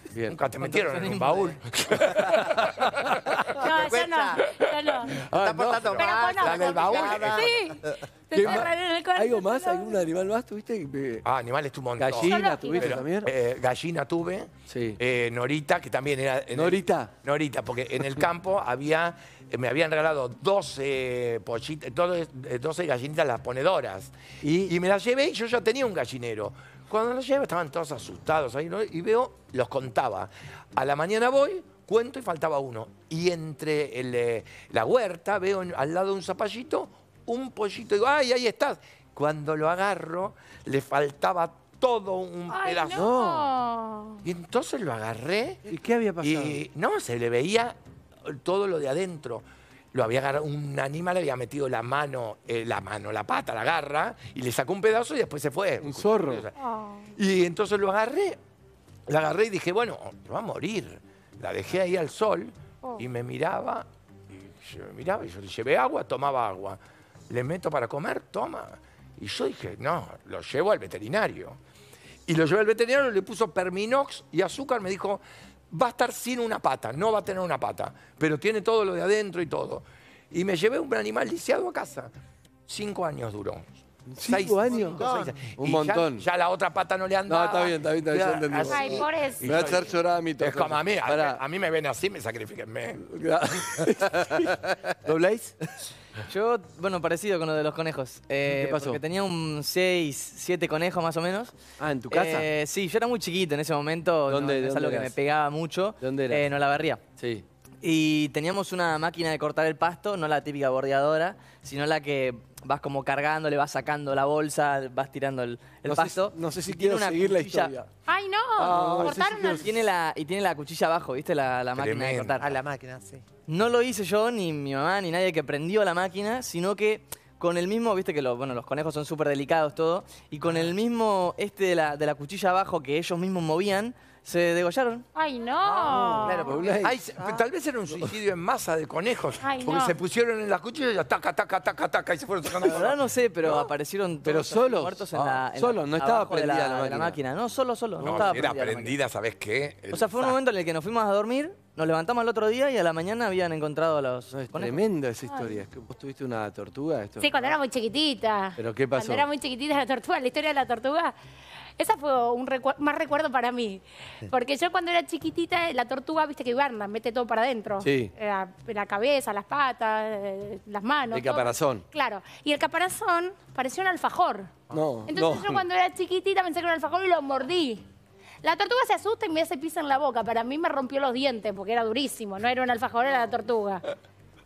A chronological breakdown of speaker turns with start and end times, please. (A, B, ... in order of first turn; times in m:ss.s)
0:00.1-0:00.4 A
0:00.2-0:03.6 B
0:00.6-0:01.6 C
0:02.3-0:03.4 A
0:03.6-0:04.4 D
0:03.6-0:05.2 E
0:04.4-0:07.5 B
0:05.3-0:07.9 D
0:06.0-0:10.0 E
0:08.3-0:11.2 A
0:11.2-0:24.1 B
0:12.0-0:13.3 A
0:12.2-0:13.0 E
0:14.7-0:15.0 A
0:16.5-0:17.1 A
0:24.4-0:24.7 A
0:24.6-0:43.1 B
0:42.5-0:44.2 E
0:42.9-0:43.5 A
0:44.2-0:45.6 B
0:45.7-0:46.6 A
0:46.2-0:56.5 B
0:55.8-0:56.4 A
0:56.6-0:57.1 E
0:57.2-0:58.4 B
0:59.1-1:06.8 B
1:07.3-1:11.6 B
1:12.3-1:22.1 B
1:22.7-1:23.7 B
1:24.1-1:25.0 A
1:24.2-1:33.0 B
1:24.7-1:25.4 D
1:25.6-1:26.2 A
1:27.3-1:31.4 A
1:28.7-1:29.8 E
1:33.0-1:35.6 A
1:36.3-1:41.5 C
1:38.5-1:39.0 A
1:41.8-1:42.5 A
1:42.1-1:47.0 C
1:44.3-1:45.1 A
1:46.0-1:46.4 A
1:47.2-1:47.4 A
1:47.8-1:57.7 C
1:55.8-1:57.9 A
1:58.1-1:59.7 E
1:58.6-1:59.7 A
1:58.8-2:02.6 C
2:01.8-2:02.4 B
2:02.4-2:03.2 D
2:03.5-2:15.0 C
2:15.1-2:16.7 E
2:15.9-2:17.0 A
2:16.1-2:17.4 D
2:16.8-2:23.0 B
2:19.4-2:20.0 E
2:22.6-2:29.0 C
2:24.2-2:27.2 A
2:28.0-2:30.4 B
2:29.9-2:34.8 C
2:34.3-2:37.5 A
2:35.3-2:35.6 E
2:37.2-2:41.1 E
2:38.6-2:39.3 A
2:41.8-2:54.6 E
2:47.8-2:48.1 A
2:51.1-2:51.8 A
2:54.7-2:55.6 A
2:55.1-2:57.8 E
2:58.4-3:03.8 E